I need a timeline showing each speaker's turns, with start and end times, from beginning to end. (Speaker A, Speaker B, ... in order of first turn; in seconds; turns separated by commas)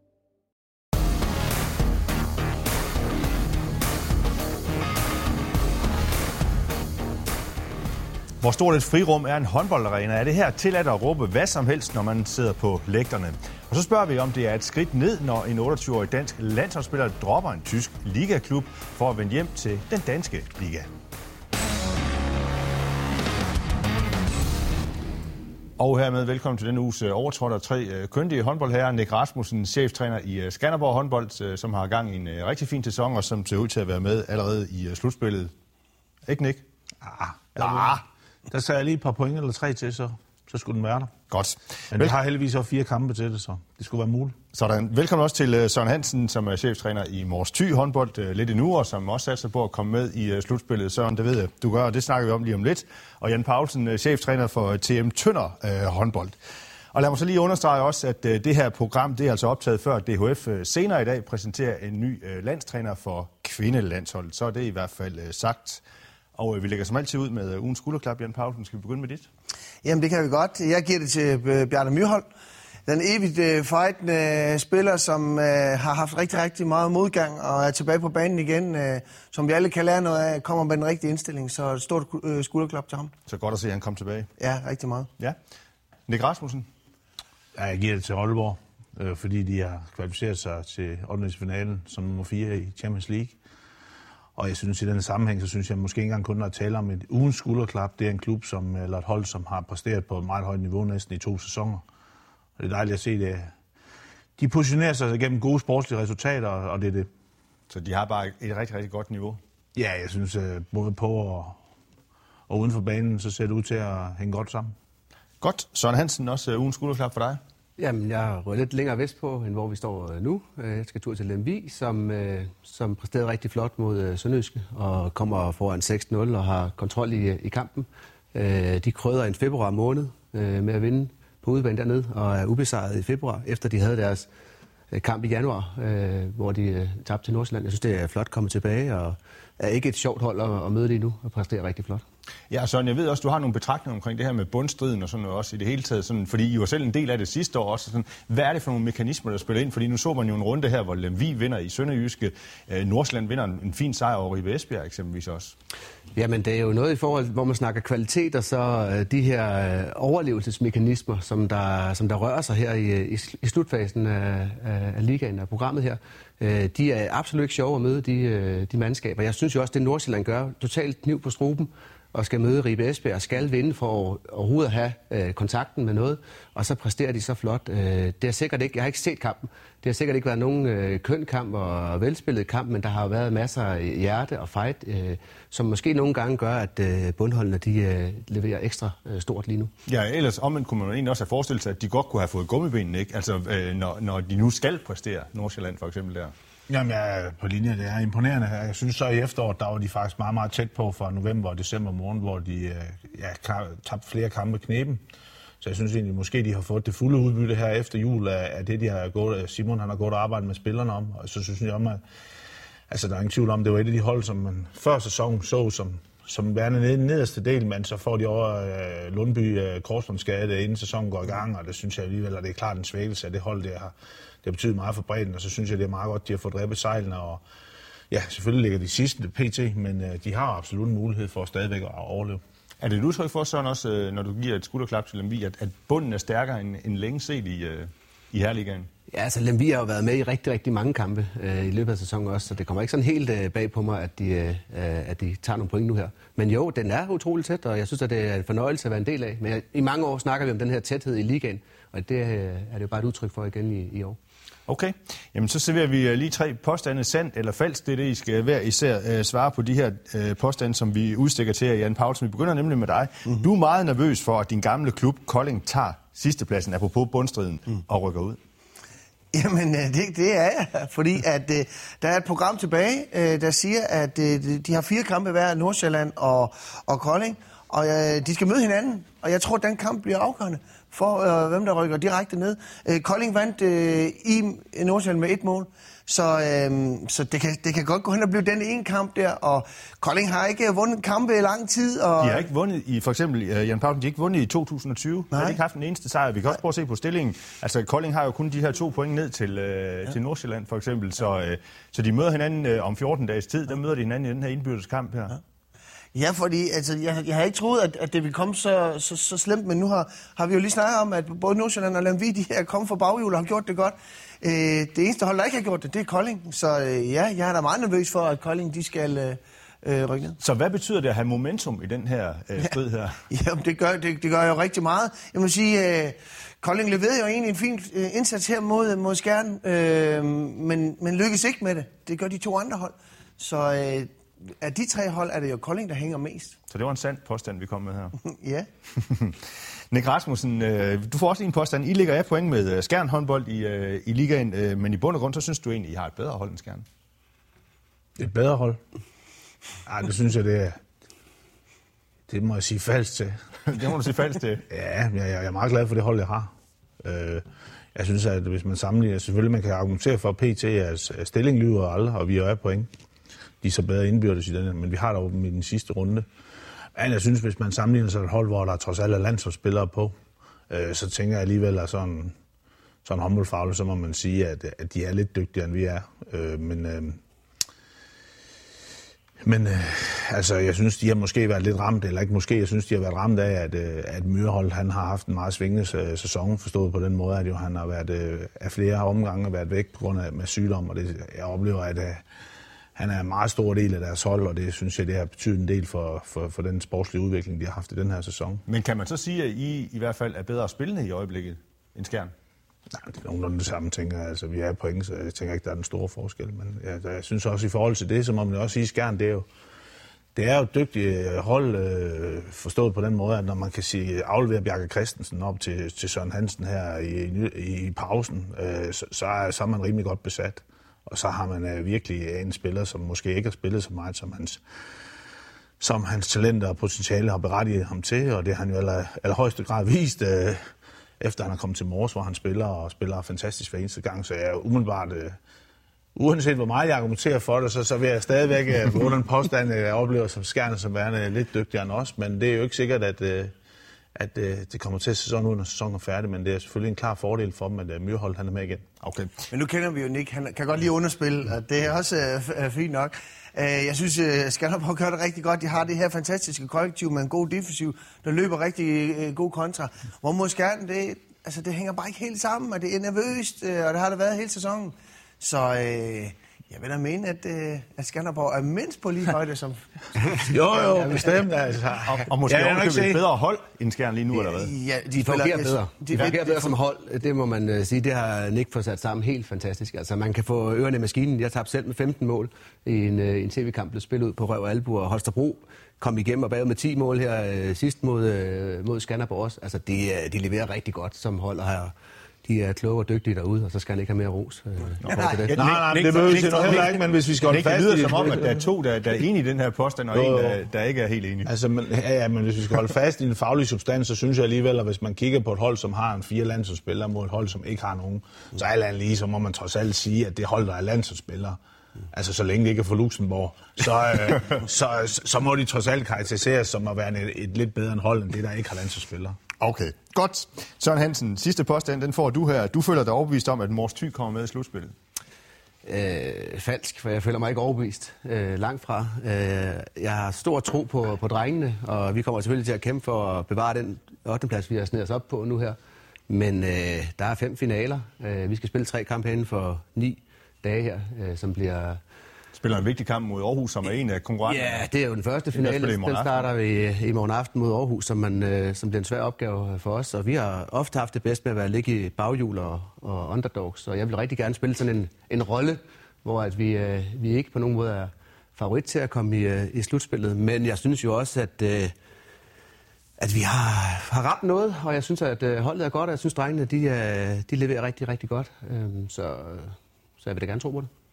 Speaker A: 8.4-20.9, Speaker A: 25.8-35.5, Speaker A: 36.3-36.6, Speaker B: 37.0-41.1, Speaker A: 37.6-37.9, Speaker A: 41.3-42.1, Speaker B: 41.9-44.4, Speaker A: 44.5-56.4, Speaker A: 56.9-65.8, Speaker A: 66.3-69.3, Speaker C: 69.8-72.2, Speaker C: 72.9-83.1, Speaker A: 83.3-84.3, Speaker C: 84.4-85.1, Speaker A: 86.1-86.7, Speaker B: 87.5-93.4, Speaker B: 94.4-101.8, Speaker B: 102.6-103.5, Speaker B: 104.4-107.1, Speaker A: 107.7-109.4, Speaker B: 109.8-111.6, Speaker B: 112.5-114.7, Speaker A: 115.4-117.4, Speaker D: 117.8-134.3, Speaker D: 134.9-142.0, Speaker A: 142.5-155.6, Speaker D: 156.2-189.7, Speaker A: 189.9-196.3, Speaker B: 196.7-205.0, Speaker B: 205.6-212.0, Speaker B: 212.9-227.4, Speaker B: 228.1-232.4, Speaker A: 232.8-238.9, Speaker D: 239.1-254.2, Speaker A: 254.7-268.4, Speaker C: 269.3-292.5, Speaker A: 292.2-305.4, Speaker C: 306.1-320.4, Speaker A: 320.4-323.2, Speaker C: 323.3-336.6, Speaker A: 336.7-338.2, Speaker C: 338.2-338.7, Speaker A: 339.0-339.4, Speaker A: 339.9-346.9, Speaker B: 348.2-348.8, Speaker B: 349.9-350.8, Speaker B: 352.3-353.4, Speaker A: 353.7-354.6, Speaker B: 354.7-357.4, Speaker B: 357.9-362.9, Speaker B: 363.6-366.3, Speaker B: 366.9-370.1, Speaker B: 370.7-372.3, Speaker B: 373.0-377.2, Speaker B: 379.4-392.2, Speaker B: 393.0-398.6, Speaker A: 398.7-402.3, Speaker B: 402.9-409.5, Speaker B: 410.4-424.6, Speaker B: 425.8-430.7, Speaker B: 431.2-435.4, Speaker B: 436.1-443.6, Speaker B: 444.1-448.9, Speaker A: 449.0-449.5, Speaker C: 449.5-470.5, Speaker D: 470.2-471.3, Speaker B: 470.5-473.2, Speaker A: 472.0-474.7, Speaker C: 474.3-476.8, Speaker D: 475.2-491.9, Speaker D: 492.4-495.6, Speaker A: 495.0-501.5, Speaker B: 495.5-498.6, Speaker B: 500.1-500.6, Speaker B: 501.5-511.6, Speaker B: 512.1-519.4, Speaker A: 519.6-524.9, Speaker D: 525.9-535.8, Speaker D: 536.3-542.0, Speaker A: 542.5-544.9, Speaker D: 544.5-561.9, Speaker A: 545.5-546.3, Speaker D: 563.2-570.9